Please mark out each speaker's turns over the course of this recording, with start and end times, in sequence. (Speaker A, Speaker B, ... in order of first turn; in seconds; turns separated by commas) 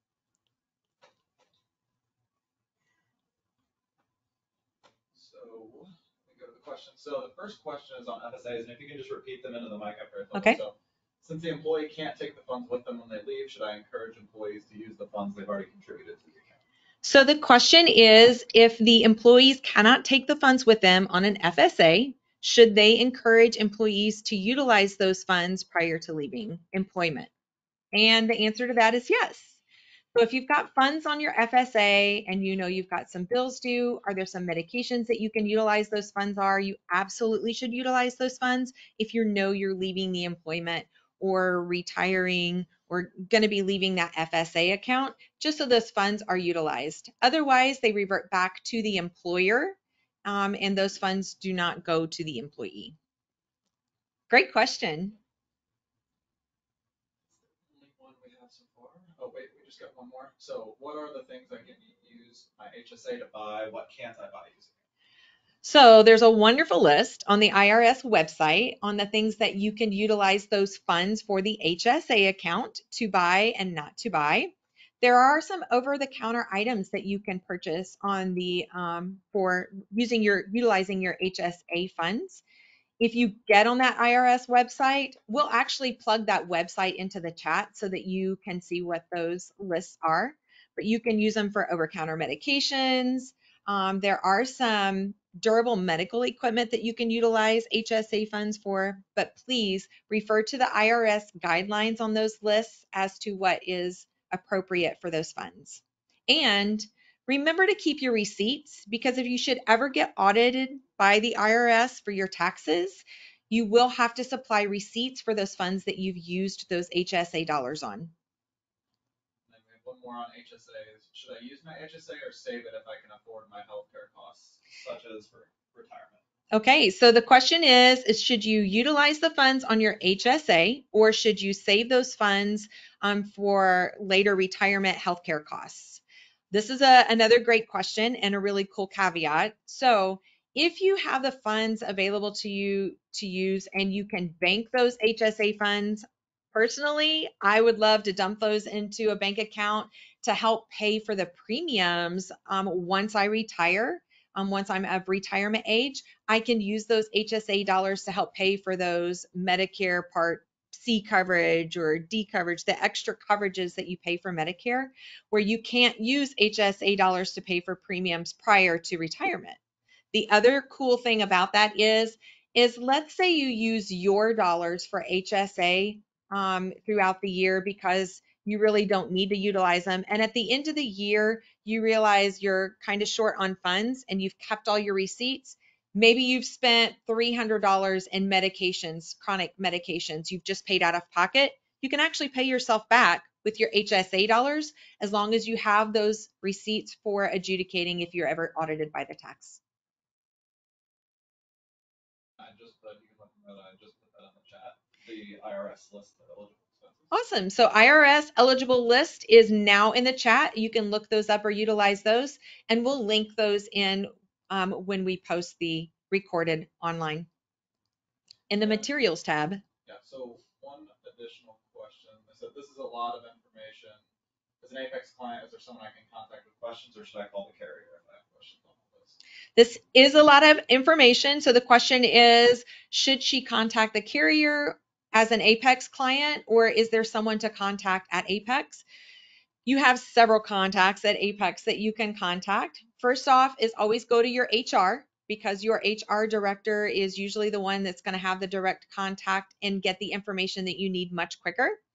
Speaker A: 5.1-16.6, Speaker B: 17.0-27.3, Speaker B: 27.9-29.6, Speaker B: 30.1-53.0, Speaker B: 54.3-55.2, Speaker A: 57.6-64.7, Speaker B: 65.6-82.4, Speaker B: 83.0-118.1, Speaker A: 119.5-126.2, Speaker B: 126.5-169.6, Speaker B: 170.1-199.6, Speaker A: 202.4-207.1, Speaker B: 207.1-217.3, Speaker B: 218.5-219.6, Speaker A: 218.6-218.8, Speaker A: 219.8-224.0, Speaker A: 224.6-229.2, Speaker B: 229.6-238.8, Speaker B: 239.7-251.8